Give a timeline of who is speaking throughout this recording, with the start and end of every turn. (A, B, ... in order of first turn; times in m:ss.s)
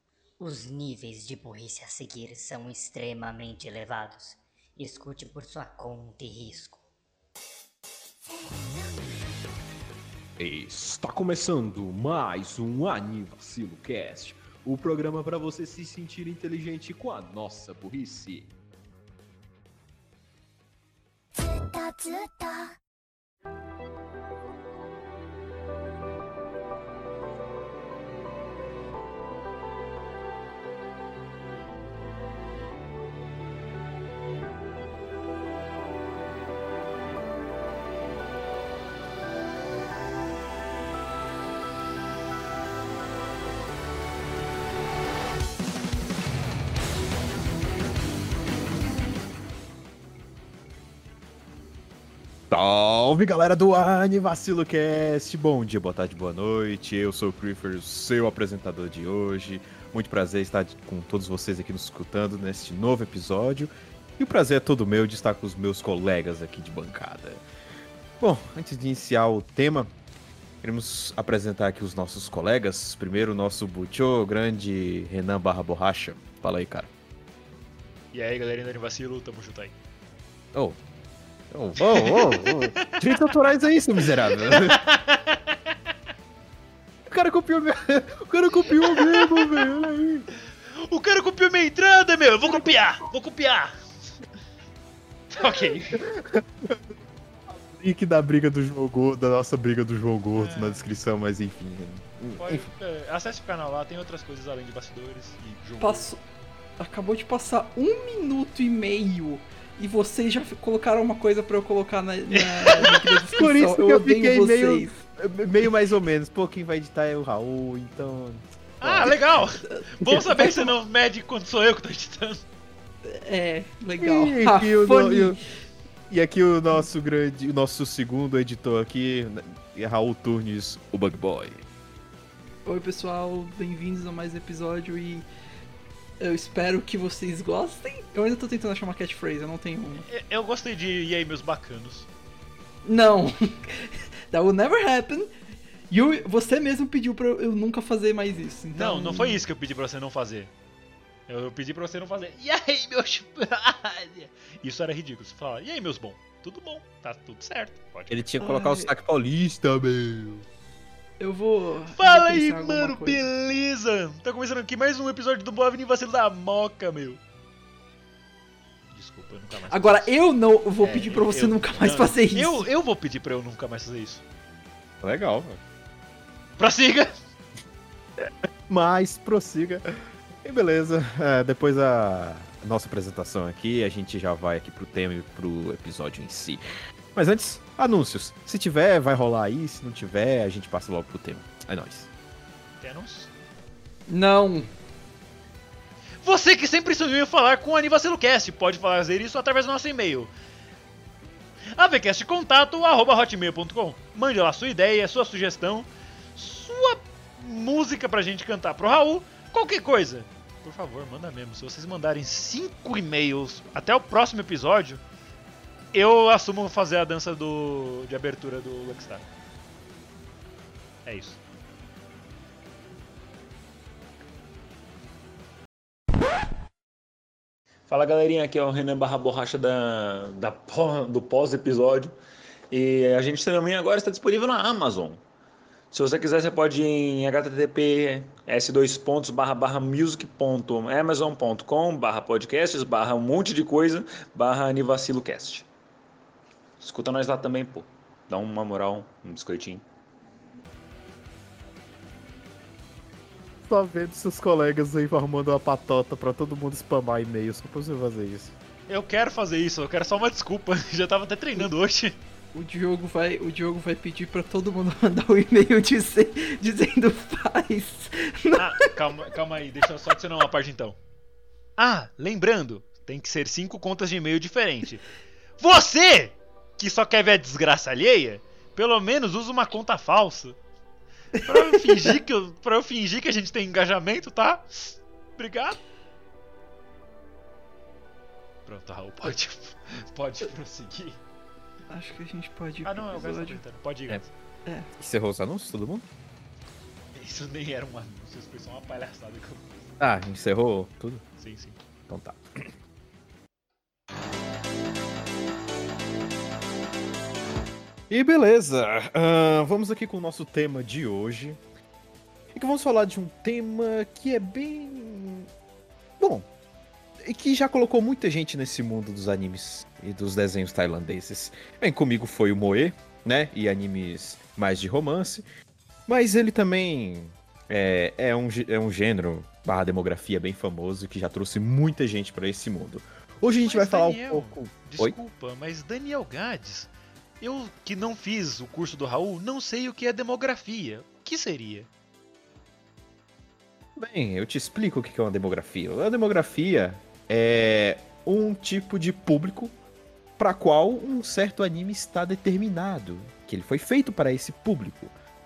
0:00.4-0:06.8 A
0:08.3-0:09.5 B
0:10.4-0:18.5 C
0:21.4-0:22.8 B
0:52.5-1:07.4 C
1:08.2-1:09.9 C
1:10.6-1:16.9 C
1:18.1-1:19.8 D
1:20.5-1:20.8 C
1:21.5-1:24.8 C
1:21.8-1:23.2 D
1:24.0-1:25.7 D
1:27.1-1:30.3 C
1:28.7-1:29.8 D
1:30.9-1:33.7 D
1:35.3-1:36.0 D
1:35.5-1:36.8 C
1:37.5-1:42.7 C
1:40.3-1:41.0 D
1:42.4-1:46.1 D
1:45.8-1:46.2 E
1:46.8-1:55.0 E
1:52.3-1:53.2 D
1:53.4-1:59.2 C
1:58.8-2:02.4 D
1:59.7-2:00.7 E
2:03.0-2:05.4 E
2:04.0-2:05.4 C
2:06.1-2:11.6 C
2:12.7-2:15.2 E
2:16.2-2:20.0 E
2:20.0-2:22.1 D
2:22.8-2:25.3 E
2:25.9-2:29.4 E
2:28.7-2:30.5 D
2:31.3-2:38.2 D
2:38.1-2:40.4 C
2:38.4-2:38.9 E
2:41.2-2:43.2 E
2:41.9-2:47.2 D
2:48.9-2:50.1 D
2:49.7-2:52.7 E
2:50.8-2:54.2 D
2:55.0-2:55.6 C
2:56.6-2:57.2 D
2:58.2-2:59.9 C
3:00.4-3:06.6 C
3:07.2-3:12.1 C
3:12.8-3:13.3 D
3:14.1-3:14.7 E
3:16.2-3:20.3 D
3:21.7-3:35.0 D
3:35.9-3:39.3 D
3:41.1-3:41.4 D
3:47.9-3:52.1 F
3:52.7-3:55.2 F
3:55.9-4:05.7 F
4:06.8-4:09.8 F
4:13.7-4:18.6 C
4:18.9-4:22.2 D
4:22.5-4:28.9 E
4:28.6-4:31.0 D
4:31.8-4:40.6 D
4:41.4-4:42.1 E
4:41.4-4:45.8 D
4:48.7-4:51.2 D
4:51.9-4:53.6 E
4:52.8-4:54.3 D
4:55.0-4:56.1 C
4:57.1-4:59.7 D
5:00.0-5:01.2 C
5:01.4-5:01.8 D
5:02.1-5:02.7 C
5:08.1-5:11.6 C
5:12.5-5:15.5 C
5:16.2-5:16.5 C
5:17.2-5:25.4 C
5:26.1-5:35.2 C
5:33.6-5:36.9 D
5:37.4-5:41.9 D
5:44.0-5:49.7 C
5:50.4-5:55.1 C